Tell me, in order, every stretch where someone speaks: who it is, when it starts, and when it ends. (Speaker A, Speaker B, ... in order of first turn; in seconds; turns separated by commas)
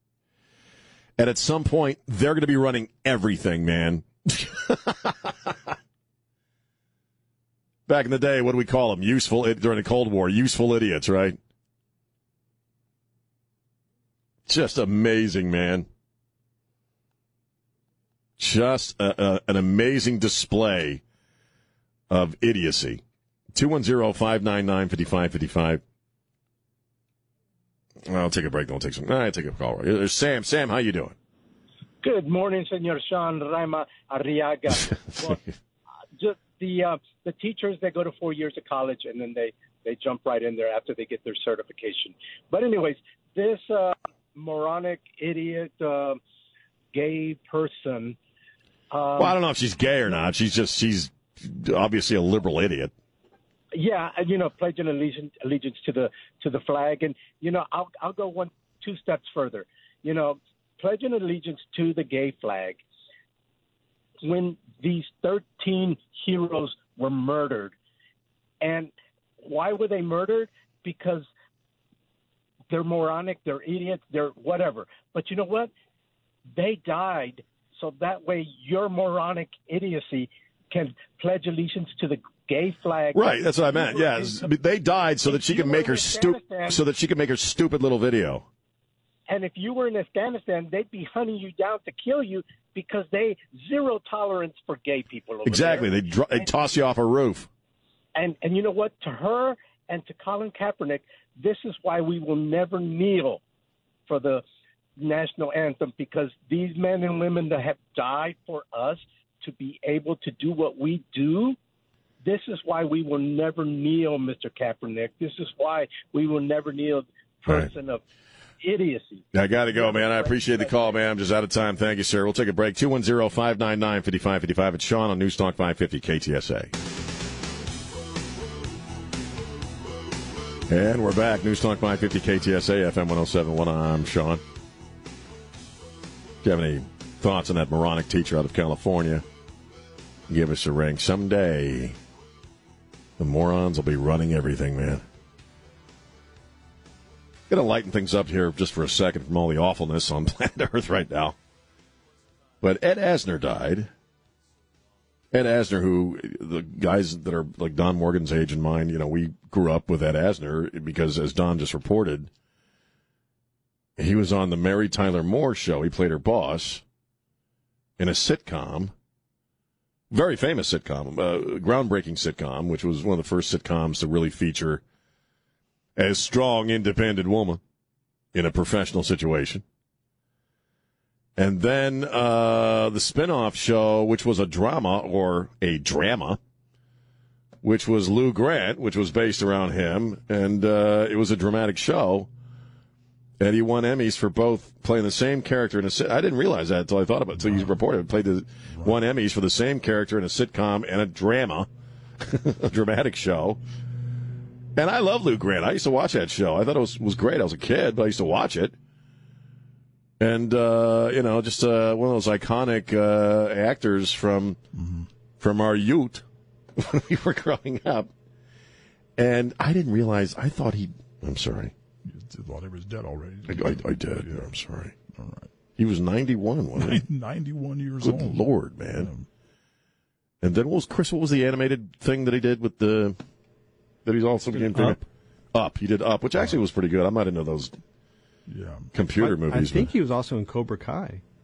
Speaker A: 1.2-5.5, Speaker A: 7.9-11.4, Speaker A: 14.5-15.9, Speaker A: 18.4-21.0, Speaker A: 22.1-23.0, Speaker A: 23.5-25.8, Speaker A: 28.1-31.1, Speaker B: 32.0-35.4, Speaker A: 35.0-35.5, Speaker B: 36.2-46.2, Speaker B: 46.9-48.1, Speaker B: 48.9-49.4, Speaker A: 49.2-52.9, Speaker B: 53.8-62.8, Speaker B: 64.2-67.7, Speaker B: 68.6-71.3, Speaker B: 72.7-75.7, Speaker B: 76.5-84.5, Speaker A: 83.1-88.5, Speaker B: 85.2-86.8, Speaker B: 89.3-96.5, Speaker A: 95.4-97.5, Speaker B: 98.2-103.4, Speaker B: 104.1-104.4, Speaker B: 105.0-111.6, Speaker B: 112.2-118.0, Speaker B: 118.6-121.0, Speaker A: 119.3-126.7, Speaker A: 130.7-134.4, Speaker A: 136.4-139.2, Speaker A: 140.3-142.0, Speaker A: 143.2-145.0, Speaker A: 147.5-151.3, Speaker A: 152.6-153.9, Speaker A: 155.3-162.3, Speaker A: 164.0-166.8, Speaker A: 168.0-168.9, Speaker A: 170.1-174.8, Speaker A: 175.9-177.6, Speaker A: 178.3-179.6, Speaker A: 181.3-186.4, Speaker A: 187.6-192.3, Speaker A: 193.4-201.7, Speaker C: 197.4-197.7, Speaker A: 202.2-203.6, Speaker A: 204.8-208.7, Speaker A: 210.2-214.6, Speaker C: 214.7-215.1, Speaker A: 215.4-216.2, Speaker A: 216.8-218.1, Speaker A: 219.2-221.7, Speaker C: 222.0-225.5, Speaker A: 223.5-224.9, Speaker A: 225.8-227.0, Speaker C: 226.8-229.3, Speaker A: 228.0-229.1, Speaker A: 230.4-233.2, Speaker A: 234.0-235.0, Speaker D: 234.7-235.0, Speaker A: 235.5-237.8, Speaker C: 238.5-238.9, Speaker A: 238.9-239.9, Speaker D: 239.1-241.2